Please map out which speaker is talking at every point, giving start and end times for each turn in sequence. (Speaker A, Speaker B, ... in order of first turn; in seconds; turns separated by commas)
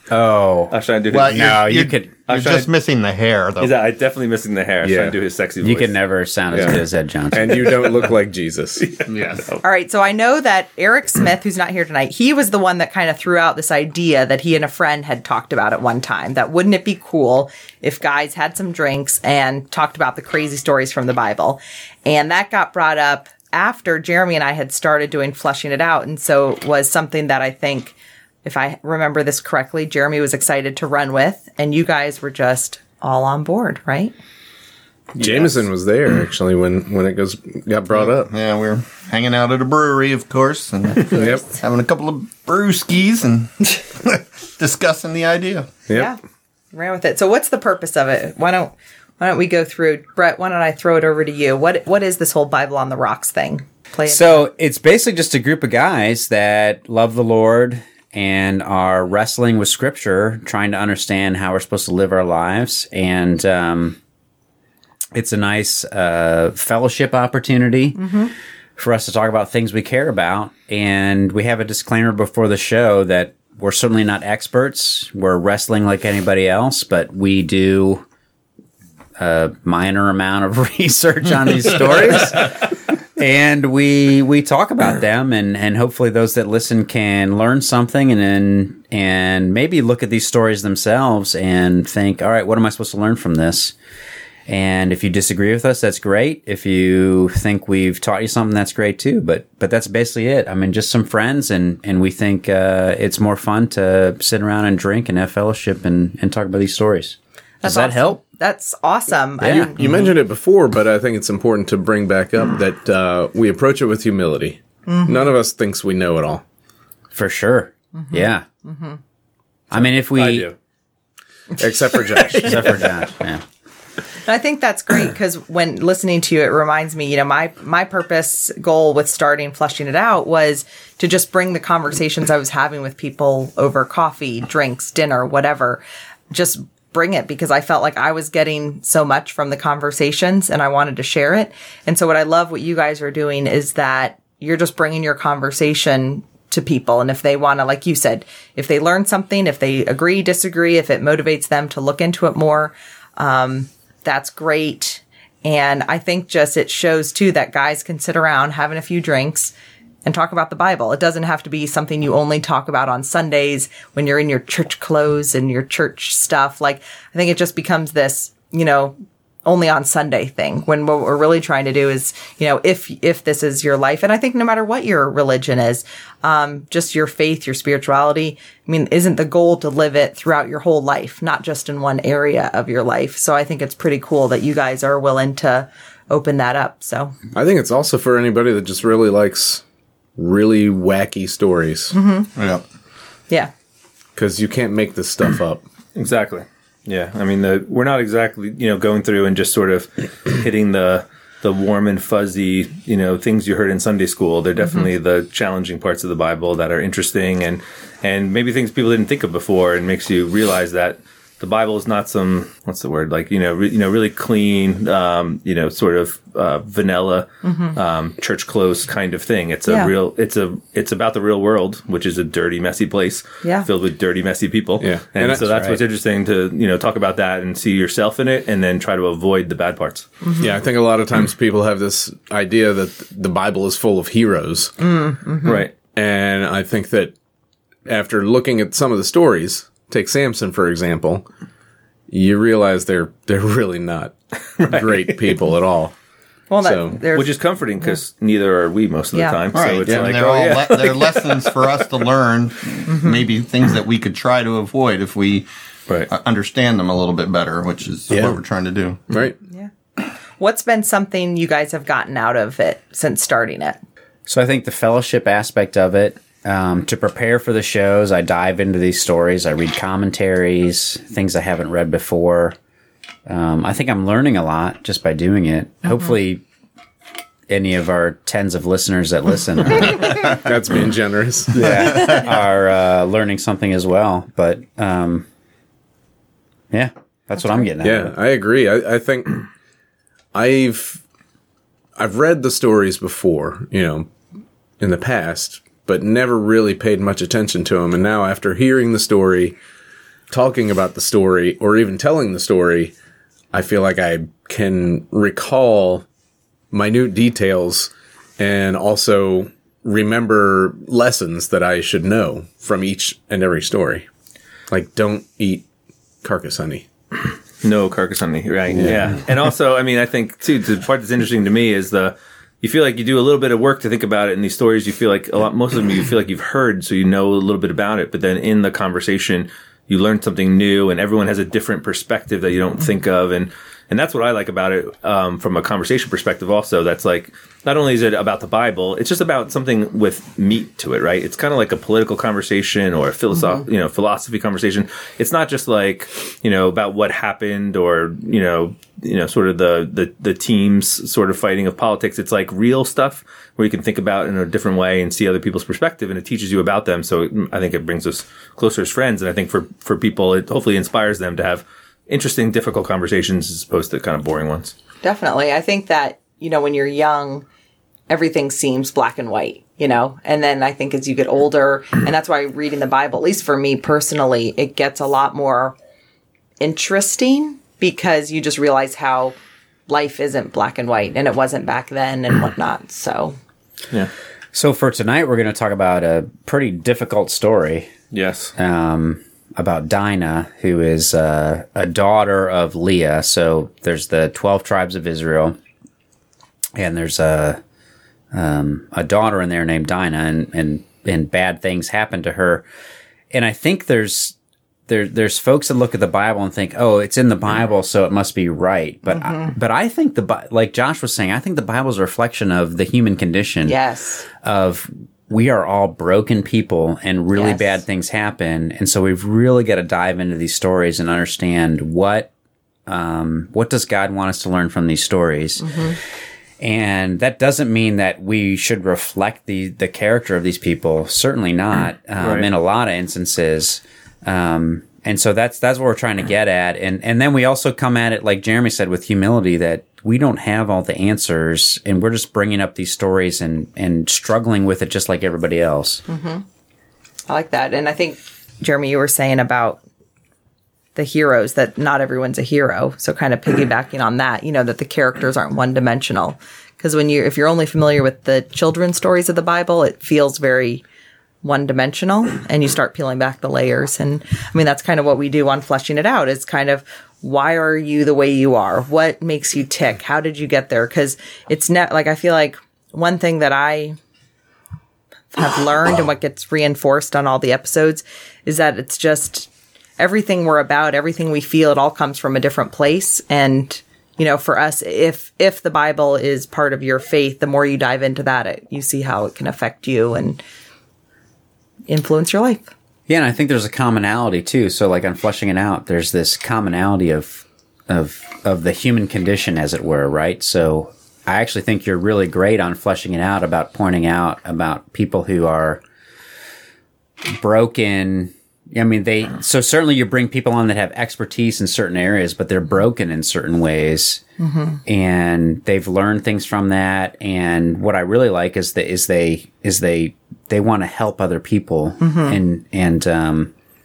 Speaker A: 0.1-0.7, Speaker B: 0.7-1.5, Speaker C: 1.1-3.7, Speaker A: 1.4-2.1, Speaker B: 2.2-2.7, Speaker B: 3.6-6.0, Speaker D: 4.8-5.2, Speaker A: 5.6-7.6, Speaker D: 6.5-6.8, Speaker D: 7.3-8.9, Speaker B: 7.7-8.0, Speaker B: 8.8-9.6, Speaker C: 9.1-9.4, Speaker E: 9.6-34.1, Speaker D: 35.2-38.3, Speaker C: 37.9-45.7, Speaker E: 41.1-41.4, Speaker D: 41.1-41.5, Speaker E: 45.9-46.2, Speaker E: 46.7-54.5, Speaker A: 54.1-64.0, Speaker A: 65.1-68.1, Speaker E: 68.0-68.3, Speaker A: 68.8-78.0, Speaker A: 79.2-93.7, Speaker A: 94.5-108.2, Speaker E: 107.6-109.8, Speaker D: 109.4-116.4, Speaker A: 109.4-109.7, Speaker E: 114.9-115.2, Speaker A: 117.1-118.4, Speaker E: 117.9-119.0, Speaker A: 119.7-120.5, Speaker B: 119.8-120.5, Speaker D: 121.6-122.7, Speaker A: 122.3-123.4, Speaker E: 124.2-159.5, Speaker E: 160.0-187.1, Speaker D: 187.3-189.6, Speaker D: 190.2-191.9, Speaker E: 191.9-192.3, Speaker C: 192.3-192.6, Speaker D: 194.2-195.6, Speaker B: 195.9-230.1, Speaker E: 217.4-217.8, Speaker E: 219.7-219.9, Speaker E: 223.4-223.7, Speaker D: 224.8-225.6, Speaker E: 230.2-230.5, Speaker D: 230.4-234.7, Speaker E: 234.8-235.6, Speaker B: 235.4-235.7, Speaker D: 235.5-237.1, Speaker D: 237.9-241.2, Speaker D: 242.1-245.9, Speaker B: 244.6-245.4, Speaker E: 246.5-247.9, Speaker D: 246.6-247.0, Speaker B: 247.1-251.7, Speaker E: 249.1-249.5, Speaker C: 249.5-259.0, Speaker E: 252.9-253.2, Speaker D: 258.1-258.4, Speaker D: 259.1-259.4, Speaker E: 260.4-263.8, Speaker A: 264.3-272.5, Speaker A: 273.3-276.4, Speaker A: 277.5-280.4, Speaker D: 280.3-281.6, Speaker A: 281.5-285.2, Speaker A: 286.7-288.1, Speaker D: 287.8-289.4, Speaker D: 290.3-291.0, Speaker D: 292.0-294.1, Speaker D: 294.8-299.6, Speaker D: 300.3-302.9, Speaker D: 303.5-306.1, Speaker D: 306.7-314.1, Speaker D: 314.7-315.6, Speaker D: 316.2-316.9, Speaker B: 317.6-364.7, Speaker D: 318.7-319.0, Speaker E: 365.0-367.4, Speaker E: 368.1-375.7, Speaker E: 376.6-379.4, Speaker E: 379.9-383.4, Speaker A: 384.5-387.9, Speaker B: 388.1-388.5, Speaker A: 388.6-395.6, Speaker A: 396.8-397.6, Speaker A: 398.3-402.6, Speaker A: 403.3-404.4, Speaker A: 404.9-413.8, Speaker E: 409.1-409.5, Speaker E: 413.6-414.3, Speaker A: 414.4-422.3, Speaker E: 417.4-417.8, Speaker A: 422.9-425.9, Speaker A: 426.6-446.0, Speaker B: 432.2-432.5, Speaker E: 446.1-446.4, Speaker E: 447.3-449.8, Speaker E: 450.9-460.8, Speaker E: 461.4-473.9, Speaker E: 475.3-490.4, Speaker E: 491.9-492.7, Speaker A: 493.1-505.8, Speaker A: 507.4-514.2, Speaker E: 514.4-514.8, Speaker A: 514.9-523.5, Speaker E: 522.0-522.4